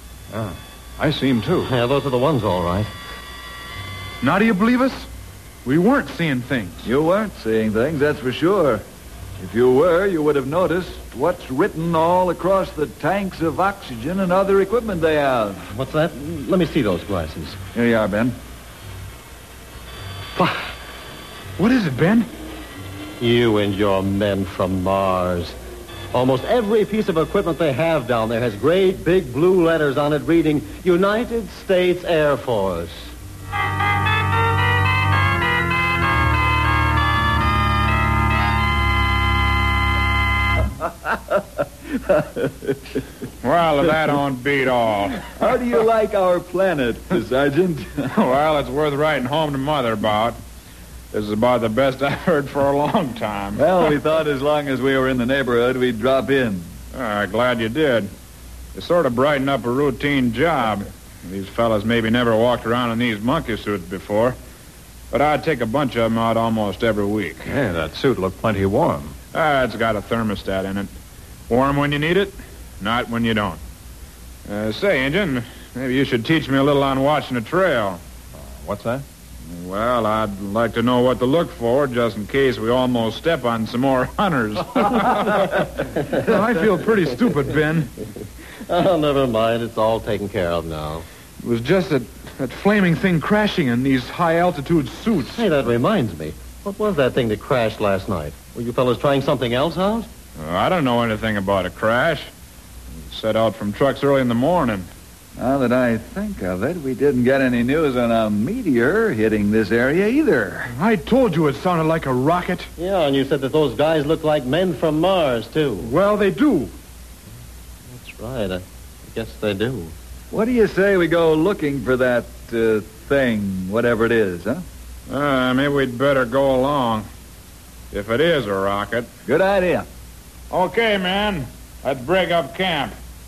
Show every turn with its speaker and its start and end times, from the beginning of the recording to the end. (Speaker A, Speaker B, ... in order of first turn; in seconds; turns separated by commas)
Speaker A: 0.3-1.7, Speaker B: 1.6-2.9, Speaker C: 4.2-5.1, Speaker C: 5.7-6.9, Speaker D: 6.8-8.8, Speaker D: 9.4-15.7, Speaker B: 15.7-17.6, Speaker D: 17.8-18.4, Speaker B: 20.4-20.7, Speaker C: 21.6-22.3, Speaker B: 23.2-25.6, Speaker B: 26.1-33.1, Speaker D: 41.0-41.4, Speaker D: 41.9-43.0, Speaker E: 43.4-45.4, Speaker D: 45.3-48.1, Speaker E: 48.1-50.4, Speaker E: 51.1-53.8, Speaker D: 53.5-56.7, Speaker E: 56.9-58.1, Speaker E: 58.8-64.4, Speaker E: 65.1-67.5, Speaker A: 67.5-69.2, Speaker E: 69.3-70.9, Speaker E: 71.5-73.6, Speaker E: 74.5-78.0, Speaker A: 78.3-79.0, Speaker E: 79.5-85.6, Speaker C: 84.7-87.9, Speaker B: 88.7-91.1, Speaker C: 91.4-95.5, Speaker B: 95.2-100.1, Speaker E: 100.4-102.3, Speaker E: 103.0-104.9, Speaker D: 105.4-110.7, Speaker C: 110.7-112.7, Speaker B: 112.8-115.9, Speaker C: 115.8-116.7, Speaker B: 117.9-119.9, Speaker D: 120.3-124.7, Speaker E: 125.1-127.1, Speaker E: 127.9-129.1, Speaker D: 129.3-129.9, Speaker E: 130.5-132.9